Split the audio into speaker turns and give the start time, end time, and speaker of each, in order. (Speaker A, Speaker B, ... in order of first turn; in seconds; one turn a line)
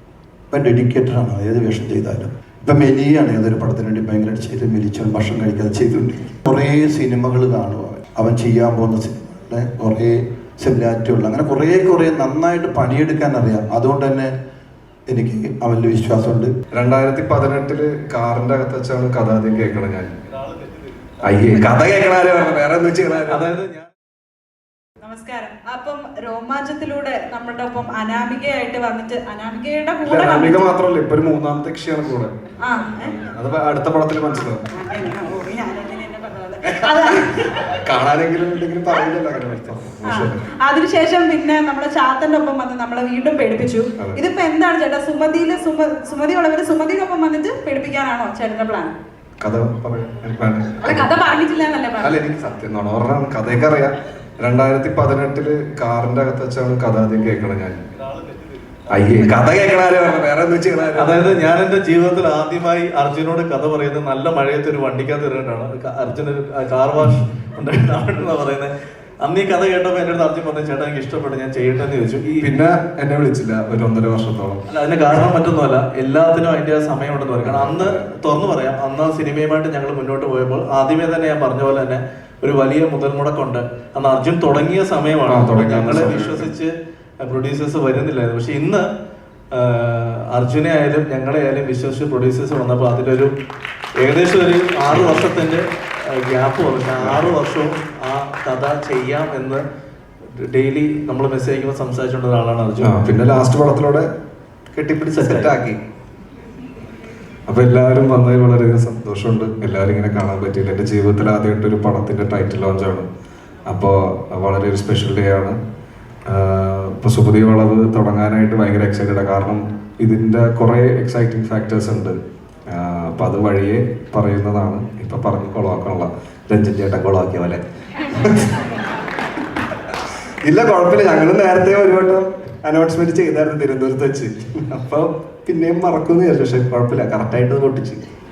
Speaker A: 0.5-14.3
Speaker A: 15.1-16.5
Speaker B: 16.7-20.1
Speaker C: 20.4-20.6
Speaker B: 21.2-23.5
Speaker C: 23.3-23.9
Speaker D: 25.0-30.7
Speaker B: 30.0-32.3
Speaker D: 32.6-33.1
Speaker B: 33.1-34.6
Speaker D: 34.7-37.5
Speaker B: 37.9-40.4
Speaker D: 40.0-48.9
Speaker B: 49.4-51.1
Speaker D: 50.8-52.2
Speaker B: 52.0-57.8
Speaker C: 58.0-58.3
Speaker B: 58.9-61.4
Speaker C: 61.0-72.6
Speaker B: 72.4-74.6
Speaker C: 74.7-88.8
Speaker B: 77.4-78.1
Speaker B: 85.2-86.5
Speaker C: 89.5-93.3
Speaker C: 94.0-99.6
Speaker B: 94.9-95.5
Speaker B: 97.0-97.4
Speaker C: 100.4-102.9
Speaker B: 102.8-104.1
Speaker B: 104.7-105.8
Speaker C: 105.2-105.5
Speaker B: 107.5-113.0
Speaker B: 113.7-115.6
Speaker B: 116.3-122.2
Speaker B: 122.7-127.6
Speaker B: 128.2-128.6
Speaker B: 130.4-138.0